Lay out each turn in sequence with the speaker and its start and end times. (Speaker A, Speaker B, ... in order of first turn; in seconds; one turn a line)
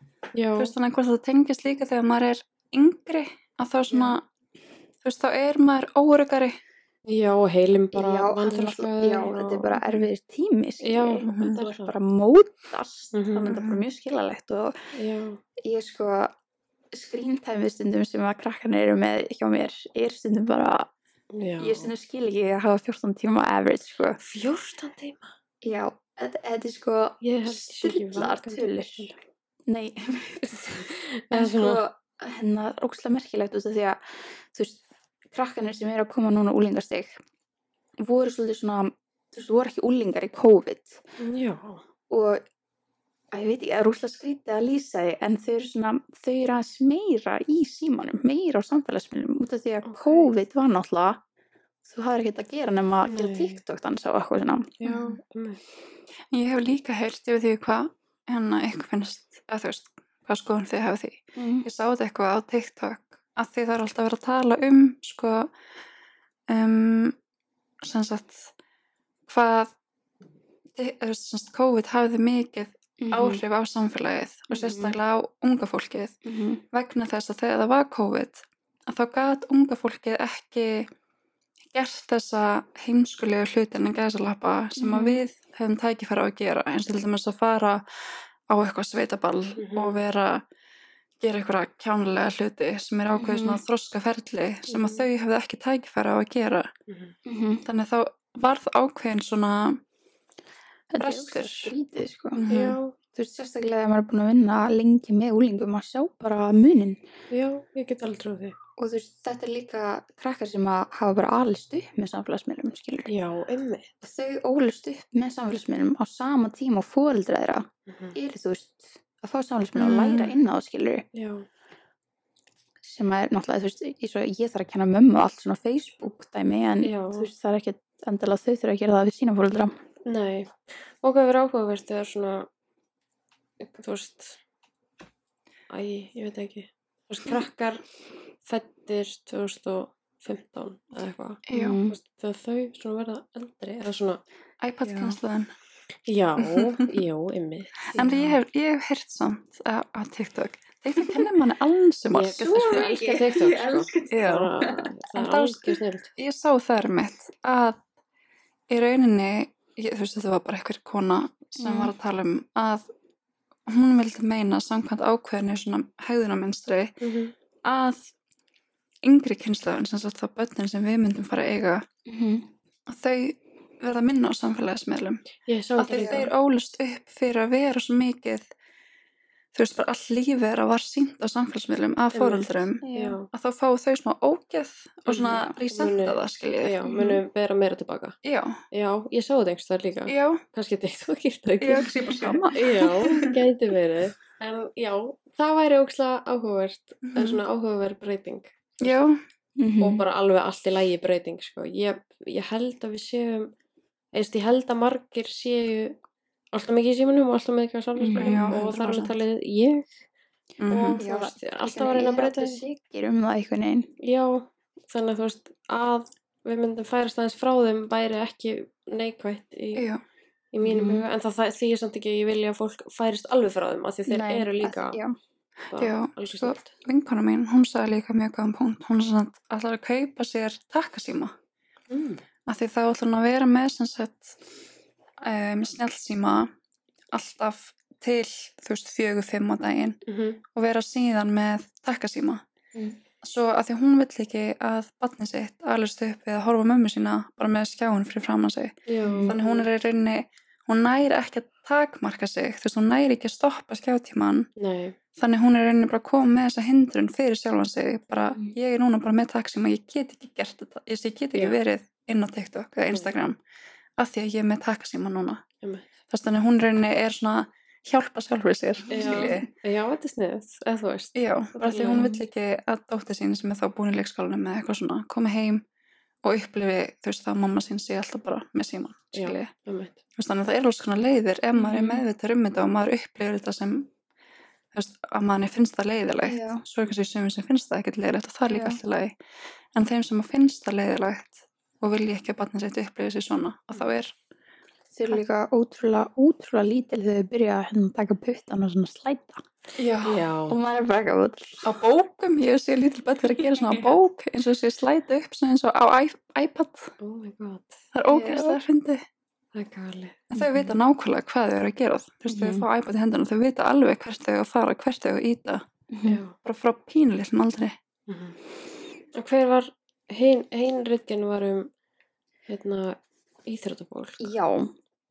Speaker A: 0.3-0.7
Speaker B: 0.6-4.2
Speaker A: 3.9-4.2
Speaker B: 5.0-6.6
Speaker A: 7.1-10.0
Speaker C: 7.9-14.8
Speaker A: 10.8-11.9
Speaker B: 11.3-11.6
Speaker A: 13.1-13.5
Speaker B: 13.5-13.8
Speaker A: 14.9-15.4
Speaker C: 15.6-16.4
Speaker C: 16.9-20.9
Speaker A: 21.3-21.9
Speaker C: 21.6-24.2
Speaker A: 24.2-25.3
Speaker C: 25.6-29.1
Speaker A: 27.2-29.1
Speaker C: 29.7-30.5
Speaker A: 30.4-31.8
Speaker C: 31.3-34.0
Speaker C: 34.5-37.1
Speaker C: 38.0-41.0
Speaker A: 41.2-41.8
Speaker C: 42.1-42.4
Speaker C: 43.3-51.2
Speaker A: 49.9-50.3
Speaker C: 51.8-54.7
Speaker A: 53.1-53.6
Speaker A: 54.8-55.6
Speaker B: 54.9-55.2
Speaker B: 56.3-65.5
Speaker C: 61.4-61.7
Speaker B: 66.5-67.2
Speaker B: 67.8-68.5
Speaker B: 69.3-69.7
Speaker B: 70.8-76.2
Speaker C: 73.0-73.4
Speaker C: 74.5-74.9
Speaker C: 76.2-76.6
Speaker B: 76.7-80.9
Speaker B: 81.7-87.8
Speaker C: 84.8-85.2
Speaker B: 88.5-90.4
Speaker A: 89.6-90.0
Speaker B: 91.2-96.7
Speaker C: 93.2-93.6
Speaker A: 94.7-95.1
Speaker A: 96.9-97.2
Speaker C: 97.2-97.6
Speaker B: 97.7-99.8
Speaker C: 100.9-102.5
Speaker B: 101.0-101.7
Speaker B: 102.3-102.8
Speaker A: 102.5-103.0
Speaker C: 103.1-107.0
Speaker A: 107.3-108.6
Speaker C: 108.8-113.1
Speaker A: 113.1-113.9
Speaker C: 114.0-121.0
Speaker A: 117.9-118.2
Speaker B: 119.8-120.4
Speaker A: 121.1-121.5
Speaker C: 122.8-129.8
Speaker A: 126.8-127.3
Speaker A: 130.1-132.5
Speaker A: 133.6-134.4
Speaker A: 135.7-137.8
Speaker A: 138.4-144.2
Speaker B: 141.5-141.8
Speaker C: 141.5-142.0
Speaker B: 144.6-145.5
Speaker C: 144.8-145.2
Speaker A: 146.1-147.9
Speaker B: 146.4-146.9
Speaker C: 147.9-148.4
Speaker B: 147.9-152.9
Speaker A: 152.1-156.1
Speaker C: 152.4-154.9
Speaker B: 154.1-154.5
Speaker B: 155.2-157.8
Speaker B: 158.7-162.9
Speaker C: 161.6-161.9
Speaker B: 163.7-166.9
Speaker A: 167.0-167.3
Speaker B: 167.6-168.1
Speaker B: 169.0-171.9
Speaker C: 172.1-172.5
Speaker B: 172.9-175.2
Speaker A: 175.5-176.3
Speaker B: 175.8-178.5
Speaker C: 175.9-176.3
Speaker B: 179.5-187.2
Speaker A: 182.1-183.3
Speaker C: 182.8-183.2
Speaker A: 185.1-188.2
Speaker B: 188.2-188.6
Speaker A: 188.7-199.0
Speaker B: 190.1-190.4
Speaker B: 191.6-193.4
Speaker B: 197.1-197.4
Speaker B: 198.8-199.2
Speaker C: 199.6-200.0
Speaker A: 199.8-203.5
Speaker A: 204.1-206.0
Speaker A: 206.5-210.0
Speaker C: 208.0-208.6
Speaker B: 208.2-209.2
Speaker B: 210.6-211.0
Speaker A: 210.7-212.6
Speaker C: 211.0-213.9
Speaker A: 214.0-219.9
Speaker B: 219.8-220.0
Speaker A: 220.5-225.0
Speaker C: 220.6-221.1
Speaker C: 224.1-225.2
Speaker A: 225.7-226.7
Speaker B: 225.8-231.3
Speaker A: 231.9-232.2
Speaker B: 232.5-234.4
Speaker B: 235.2-236.5
Speaker B: 237.1-240.0
Speaker A: 240.1-240.4
Speaker B: 240.5-242.4
Speaker B: 243.2-254.5
Speaker A: 248.9-249.7
Speaker C: 249.0-249.4
Speaker A: 254.6-255.0
Speaker B: 255.2-263.4
Speaker A: 261.3-261.6
Speaker B: 264.0-265.4
Speaker A: 265.6-265.9
Speaker B: 266.1-269.5
Speaker C: 268.9-269.4
Speaker A: 268.9-272.1
Speaker B: 271.1-275.6
Speaker C: 271.7-272.2
Speaker B: 276.2-279.5
Speaker A: 279.1-280.0
Speaker B: 280.2-283.9
Speaker C: 281.6-282.0
Speaker B: 284.7-289.1
Speaker C: 286.3-286.6
Speaker C: 288.5-288.8
Speaker B: 289.8-294.1
Speaker C: 294.9-299.4
Speaker B: 299.8-300.3
Speaker A: 300.0-300.6
Speaker C: 300.5-301.7
Speaker B: 301.6-306.9
Speaker A: 307.0-307.8
Speaker B: 307.9-309.0
Speaker C: 308.1-308.6
Speaker A: 309.5-310.3
Speaker B: 310.3-315.6
Speaker C: 310.4-310.7
Speaker C: 312.3-312.7
Speaker C: 315.9-316.2
Speaker A: 316.1-316.4
Speaker B: 316.4-317.8
Speaker A: 318.1-318.4
Speaker A: 319.1-321.7
Speaker A: 322.5-324.3
Speaker C: 324.2-324.8